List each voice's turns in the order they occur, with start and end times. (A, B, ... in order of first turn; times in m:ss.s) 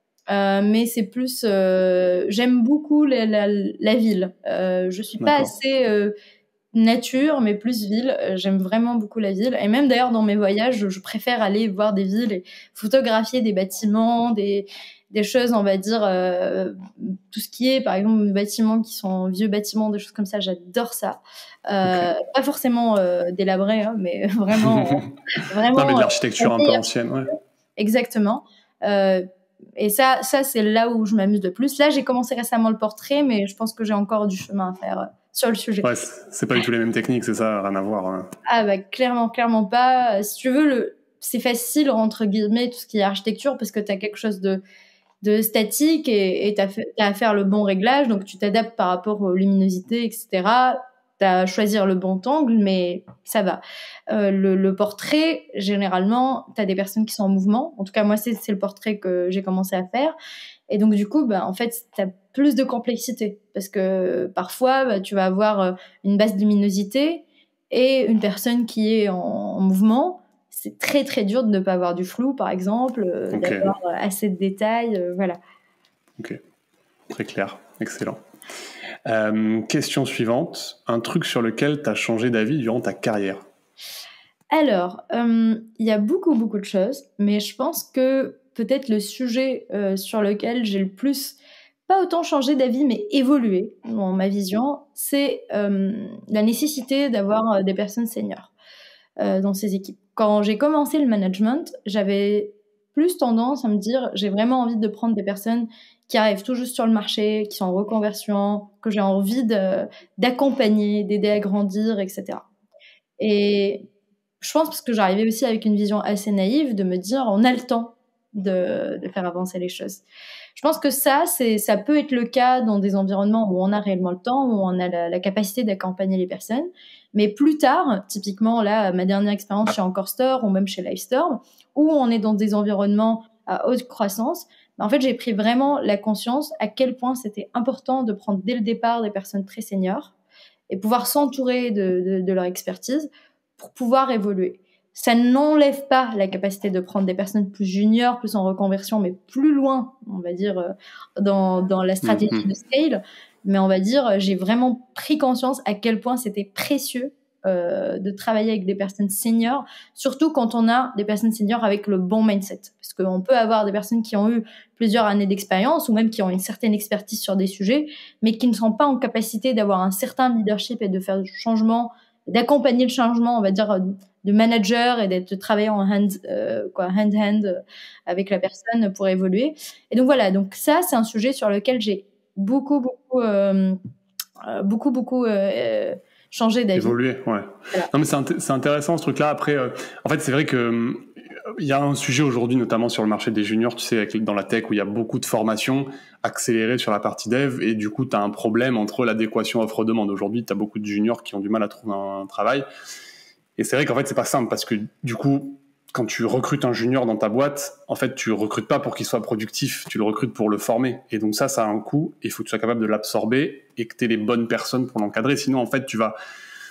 0:00.3-0:06.1 A
0:05.2-0:05.5 B
0:06.7-0:29.2 A
0:21.9-0:22.1 B
0:24.6-0:25.1 B
0:25.7-0:27.3 B
0:29.8-0:35.9 A
0:35.8-0:38.3 B
0:38.5-0:44.6 A
0:45.2-1:00.2 A
1:00.7-1:15.4 A
1:13.3-1:13.7 B
1:17.1-1:18.2 B
1:19.0-1:23.4 B
1:24.5-1:38.5 A
1:39.2-1:52.4 A
1:53.2-1:53.8 A
1:54.4-2:00.0 A
2:00.6-2:20.1 A
2:20.7-3:03.8 A
2:32.0-2:32.5 B
3:04.4-3:07.0 A
3:06.8-3:22.6 B
3:23.6-3:36.2 B